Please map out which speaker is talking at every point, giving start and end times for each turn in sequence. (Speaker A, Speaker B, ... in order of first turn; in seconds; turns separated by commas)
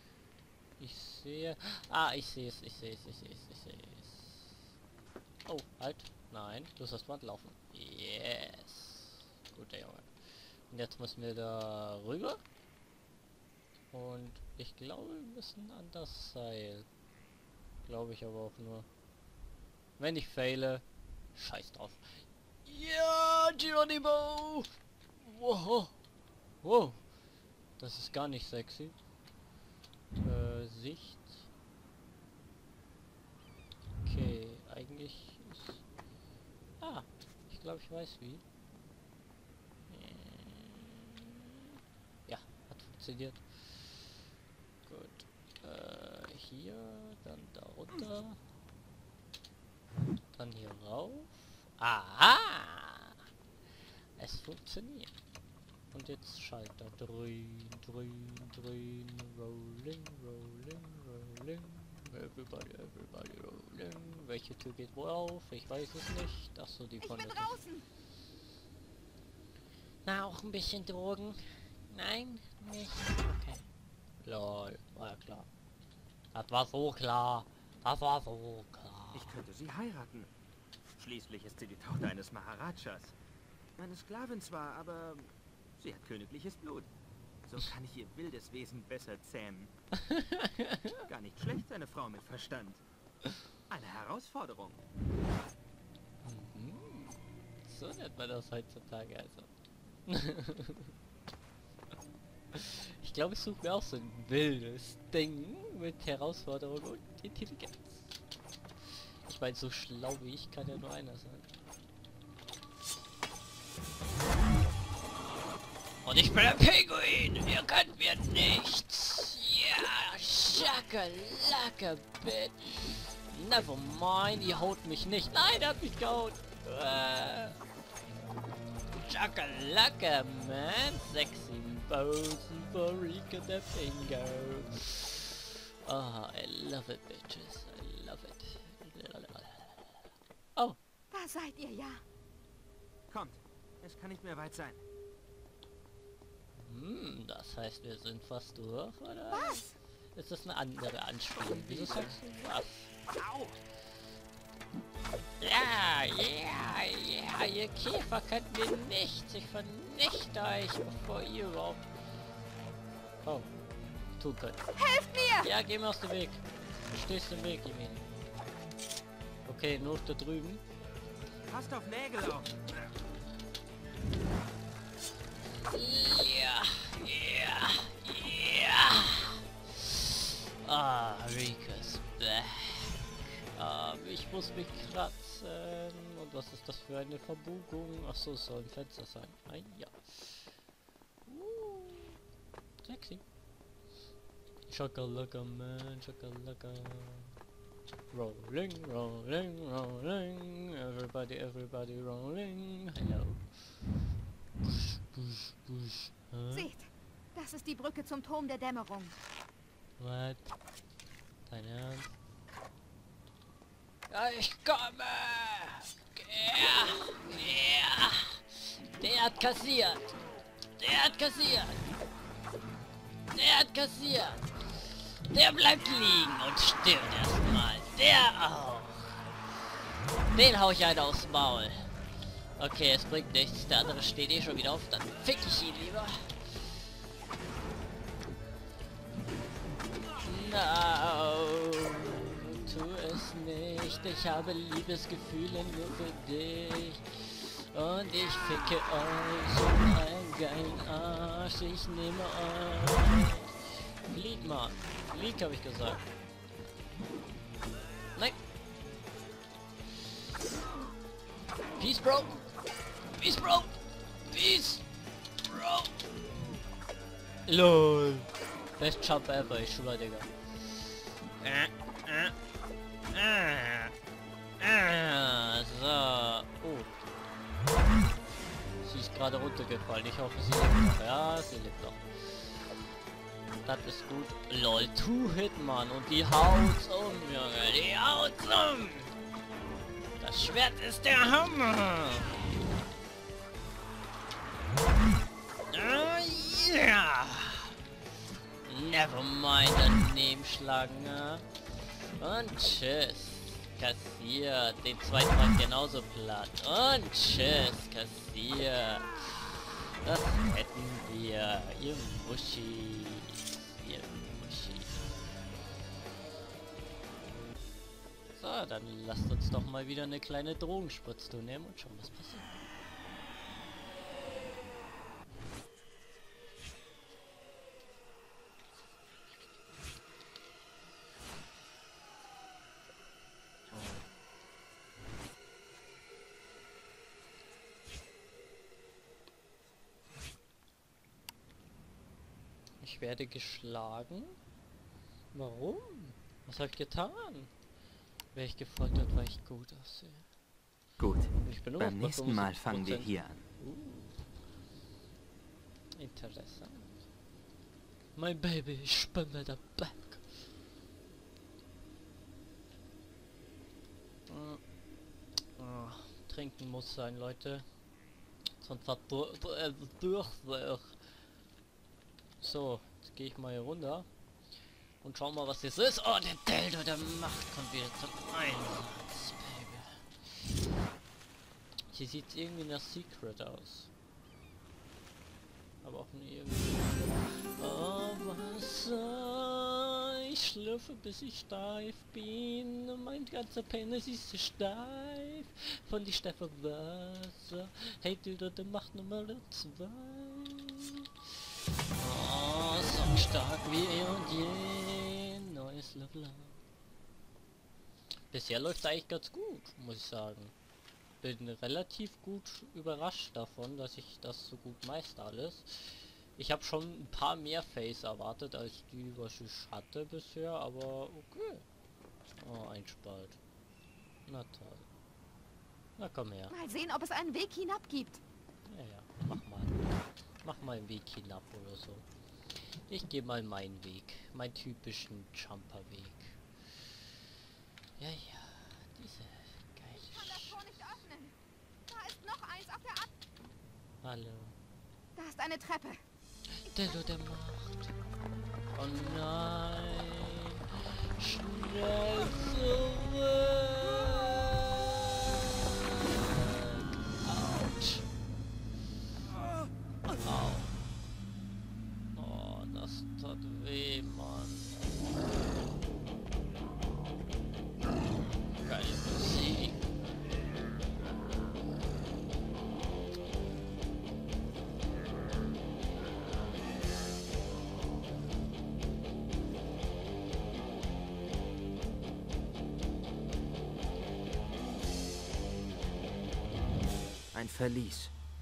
Speaker A: 0.8-4.7, Speaker A: 5.5-10.1, Speaker A: 10.7-12.4, Speaker A: 13.9-16.9, Speaker A: 17.9-18.9, Speaker A: 20.0-20.8, Speaker A: 21.4-22.1, Speaker A: 22.7-25.9, Speaker A: 26.6-27.0, Speaker A: 27.8-29.0, Speaker A: 30.2-31.5, Speaker A: 34.0-35.8, Speaker A: 36.8-38.4, Speaker A: 39.9-41.7, Speaker A: 42.3-44.1, Speaker A: 44.9-48.4, Speaker A: 50.4-53.2, Speaker A: 54.2-55.1, Speaker A: 55.9-67.6, Speaker B: 67.0-67.9, Speaker A: 70.0-73.7, Speaker A: 74.2-75.5, Speaker A: 76.3-79.3, Speaker C: 79.1-80.3, Speaker C: 81.0-83.2, Speaker C: 83.8-86.9, Speaker C: 87.5-89.7, Speaker A: 90.0-91.0, Speaker C: 91.1-92.8, Speaker C: 93.7-94.8, Speaker A: 96.2-99.5, Speaker A: 100.1-100.9, Speaker A: 102.5-108.2, Speaker A: 109.2-111.6, Speaker A: 116.0-127.6, Speaker A: 128.9-140.8, Speaker B: 141.1-142.0, Speaker C: 143.1-144.8, Speaker A: 146.6-152.9, Speaker B: 149.3-149.7, Speaker C: 151.4-152.2, Speaker C: 153.2-153.6, Speaker A: 155.4-161.8, Speaker A: 163.2-163.5, Speaker A: 164.2-164.6, Speaker B: 164.8-165.5, Speaker A: 165.4-168.1, Speaker A: 169.5-170.6, Speaker C: 171.5-172.6, Speaker A: 175.6-190.5, Speaker A: 191.3-192.2, Speaker A: 192.8-193.2, Speaker A: 194.7-197.3, Speaker A: 198.1-203.8, Speaker A: 204.6-206.7, Speaker B: 206.5-209.2, Speaker A: 210.0-210.5, Speaker A: 211.5-212.2, Speaker A: 214.1-220.2, Speaker A: 220.8-221.9, Speaker A: 223.3-229.2, Speaker A: 230.3-231.9, Speaker A: 232.6-236.5, Speaker A: 240.2-256.0, Speaker A: 261.8-262.5, Speaker A: 263.2-264.9, Speaker A: 265.4-266.6, Speaker A: 267.5-270.3, Speaker A: 271.4-272.3, Speaker A: 273.1-273.9, Speaker A: 274.6-277.0, Speaker A: 278.8-282.5, Speaker A: 283.6-289.1, Speaker A: 290.2-292.4, Speaker A: 295.7-297.8, Speaker A: 298.6-301.5, Speaker A: 302.2-315.3, Speaker A: 318.4-322.6, Speaker A: 342.8-344.4, Speaker A: 345.3-347.5, Speaker A: 348.3-350.3, Speaker C: 351.0-353.5, Speaker A: 351.4-354.2, Speaker A: 356.0-357.1, Speaker A: 358.1-360.5, Speaker A: 364.3-364.6, Speaker A: 365.6-367.7, Speaker A: 368.6-371.0, Speaker A: 372.4-374.1, Speaker A: 375.0-380.5, Speaker A: 381.9-383.9, Speaker A: 385.8-401.1, Speaker A: 402.0-406.6, Speaker A: 408.3-410.5, Speaker A: 411.2-421.6, Speaker A: 422.4-423.4, Speaker A: 424.3-424.9, Speaker A: 426.0-426.5, Speaker B: 426.5-428.2, Speaker A: 428.7-429.8, Speaker A: 430.4-432.1, Speaker A: 432.6-436.9, Speaker A: 438.0-440.9, Speaker B: 440.0-441.4, Speaker B: 441.9-443.1, Speaker A: 444.0-444.6, Speaker B: 445.2-446.0, Speaker A: 446.5-447.9, Speaker A: 448.8-450.6, Speaker A: 451.2-455.4, Speaker A: 455.9-458.1, Speaker A: 460.2-460.8, Speaker A: 462.1-464.8, Speaker A: 468.6-469.8, Speaker C: 487.3-488.1